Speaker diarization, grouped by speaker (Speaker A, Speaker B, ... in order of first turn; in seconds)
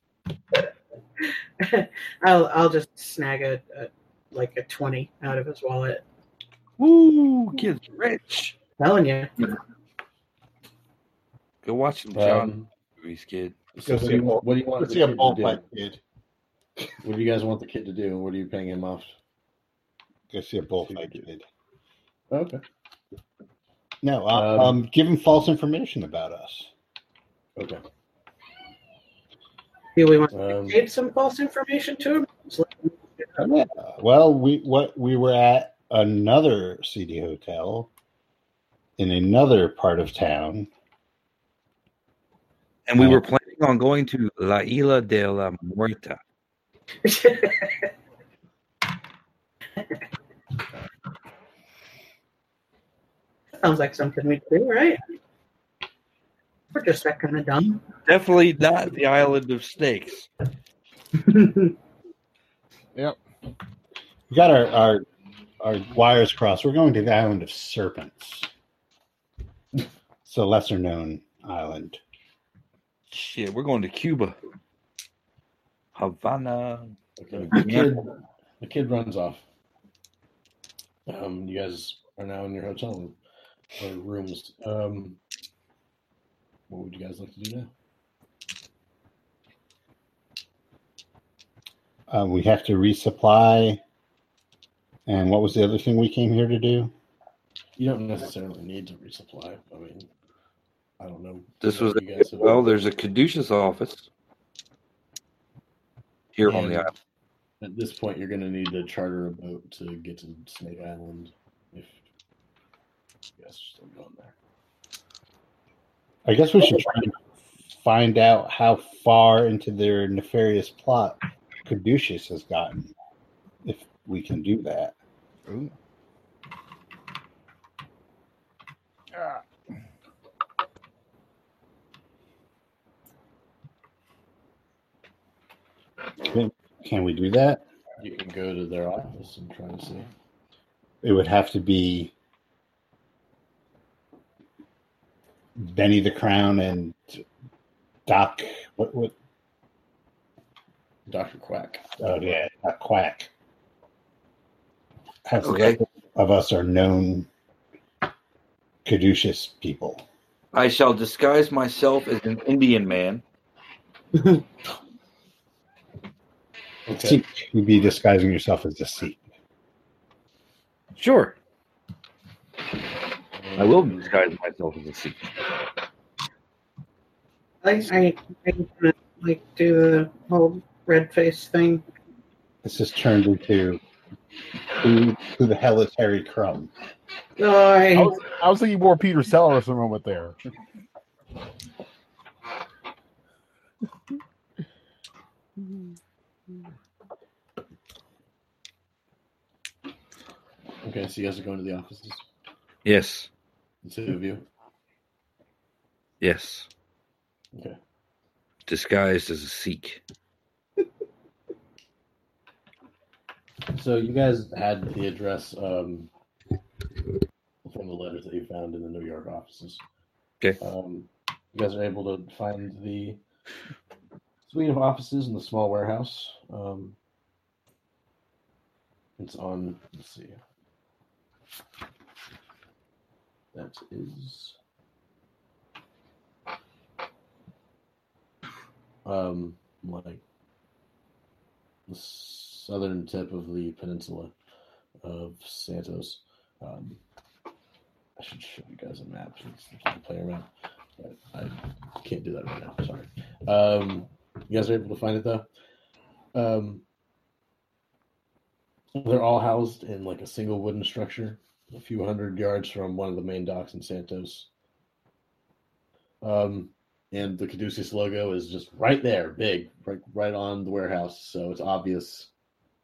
Speaker A: 1.6-6.0, 8.8-9.3, 29.9-33.0, 47.0-47.9, 53.6-55.0, 56.7-57.9, 61.2-61.7, 177.6-181.8, 187.4-188.2
Speaker B: 6.8-8.6, 11.6-13.6, 42.9-46.2, 58.0-60.3, 73.1-74.3, 76.0-78.0, 101.6-104.0, 106.3-106.9, 155.4-155.8, 160.5-163.2, 170.9-171.3, 173.6-175.3, 202.8-203.3, 206.2-206.7, 208.7-210.0
Speaker C: 12.1-12.7, 13.7-15.6, 17.0-19.1, 20.9-21.2, 22.3-22.6, 24.3-24.8, 30.3-30.8, 77.2-79.4, 81.1-83.2, 83.8-85.2, 86.7-87.7, 97.8-100.1, 101.0-102.8, 106.5-106.9, 107.6-112.0, 113.4-114.3, 138.0-140.1, 151.1-151.8, 166.9-167.2, 173.3-174.1, 200.8-202.2, 203.8-204.4, 213.7-216.1, 217.6-219.8, 220.6-223.2, 224.5-226.9, 229.2-230.4, 233.5-234.6, 239.0-240.2, 241.9-244.3, 245.0-247.0, 248.2-255.5, 256.3-256.8, 258.9-264.5, 266.2-272.3
Speaker D: 13.8-16.0, 20.3-21.4, 24.0-26.7, 33.4-37.9, 39.0-40.7, 64.3-65.0, 65.6-68.5, 70.2-72.0, 92.1-93.8, 95.1-96.9, 116.2-122.9, 123.6-124.9, 136.3-137.6, 141.0-142.1, 145.6-147.2, 148.1-149.1, 152.0-153.3, 155.2-157.3, 158.8-160.0, 166.9-169.2, 182.6-183.8, 184.8-186.7
Speaker E: 125.5-125.7, 129.1-129.4, 187.9-190.3